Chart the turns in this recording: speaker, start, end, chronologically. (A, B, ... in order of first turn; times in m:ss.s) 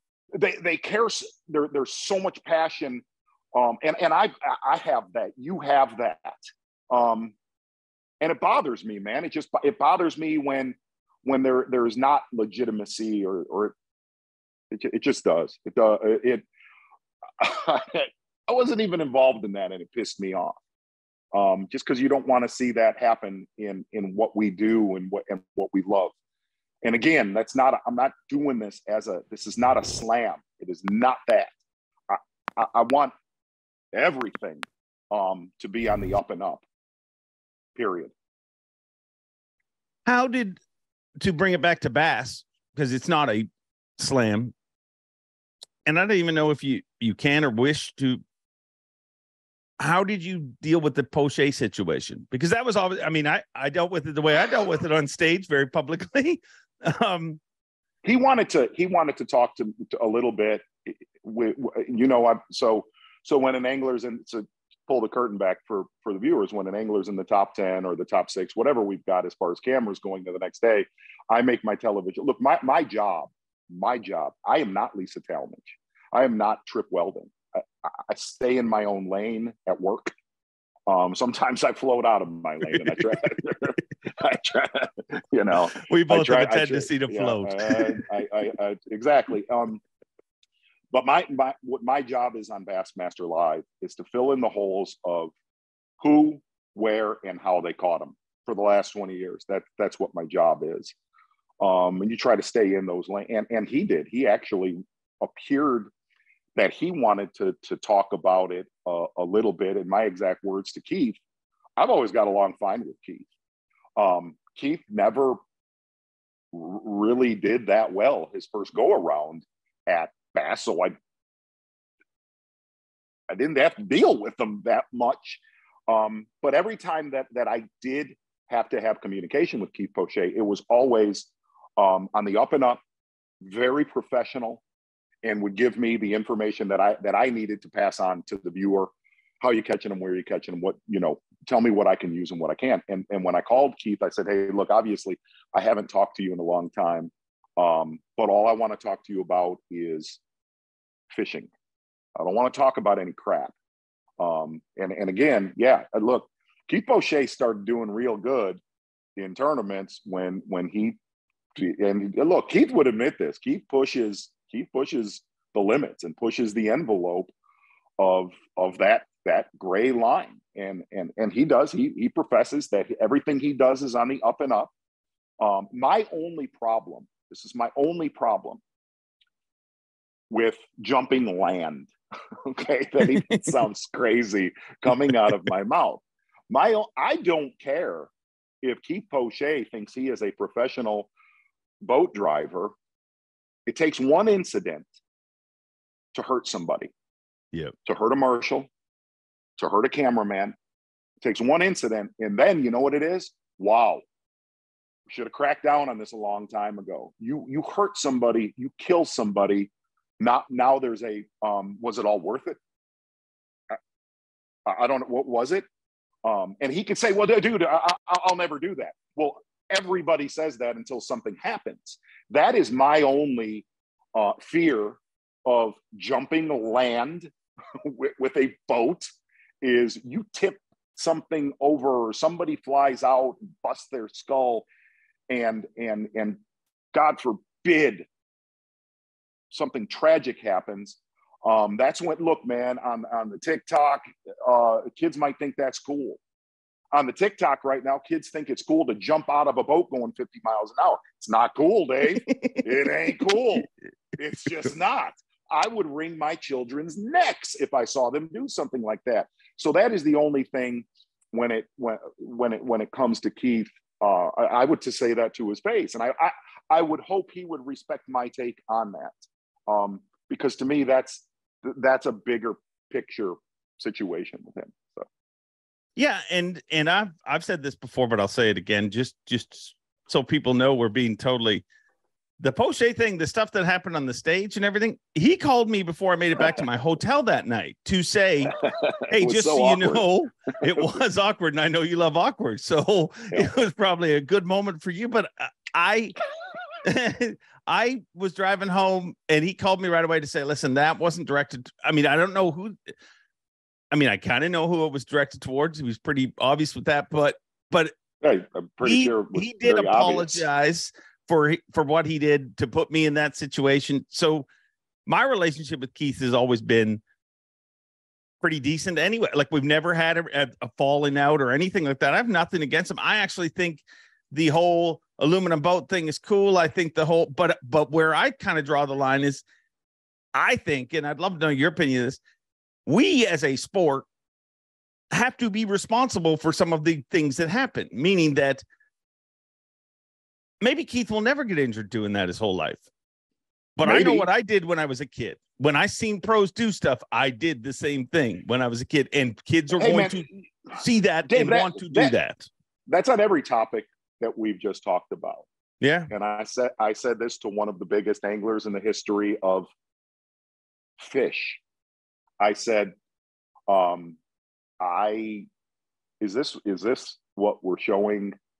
0:00.3-0:07.3 A
0:08.2-0:13.8 A
0:14.7-0:16.5 A
0:17.4-0:20.6 A
0:21.3-0:26.2 A
0:26.8-0:31.5 A
0:32.1-0:33.1 A
0:33.9-0:36.6 A
0:37.8-0:38.1 A
0:40.1-0:40.6 B
0:41.2-0:44.5 B
0:45.9-0:48.2 B
0:49.8-0:57.4 B
0:58.0-1:20.1 A
1:20.9-1:29.8 A
1:25.8-1:28.0 B
1:30.9-1:35.3 A
1:36.0-1:40.9 A
1:41.6-1:45.9 A
1:46.6-1:51.2 A
1:51.8-1:53.3 A
1:54.0-1:55.4 A
1:56.5-2:01.0 A
2:03.3-2:12.8 A
2:13.4-2:14.6 A
2:15.2-2:30.2 A
2:31.1-2:31.5 A
2:32.2-2:33.5 A
2:34.2-2:38.6 A
2:39.2-2:41.0 A
2:41.6-2:47.3 A
2:48.0-2:54.7 A
2:55.4-2:58.6 A
3:00.3-3:01.9 A
3:02.4-3:08.1 A
3:03.2-3:03.5 B
3:08.6-3:11.1 A
3:11.8-3:12.8 A
3:13.7-3:14.9 A
3:16.1-3:16.9 A
3:17.8-3:18.7 A
3:19.6-3:20.6 A
3:21.2-3:24.0 A
3:25.1-3:32.6 A
3:34.7-3:35.7 A
3:36.2-3:49.1 A
3:49.6-3:54.7 A
3:55.3-3:56.4 A
3:56.9-3:58.1 A
3:59.5-4:06.2 A
4:06.9-4:35.1 A
4:12.3-4:12.6 B
4:36.0-4:41.6 B
4:42.4-4:48.6 B
4:48.6-4:50.0 A
4:49.1-4:56.2 B
4:56.8-5:02.9 B
5:03.9-5:07.9 B
5:08.2-5:10.5 A
5:08.8-5:14.5 B
5:15.1-5:17.0 B
5:18.4-5:29.4 B
5:30.3-5:32.2 B
5:32.9-5:34.1 B
5:35.1-5:38.6 B
5:40.6-5:42.8 B
5:43.8-5:52.5 B
5:43.8-5:44.3 A
5:49.8-5:50.5 A
5:51.2-5:52.2 A
5:52.9-5:55.5 A
5:55.8-5:56.1 B
5:56.1-5:59.7 A
6:01.0-6:01.6 A
6:02.4-6:02.9 A
6:03.7-6:04.2 A
6:04.8-6:05.5 A
6:06.2-6:08.4 A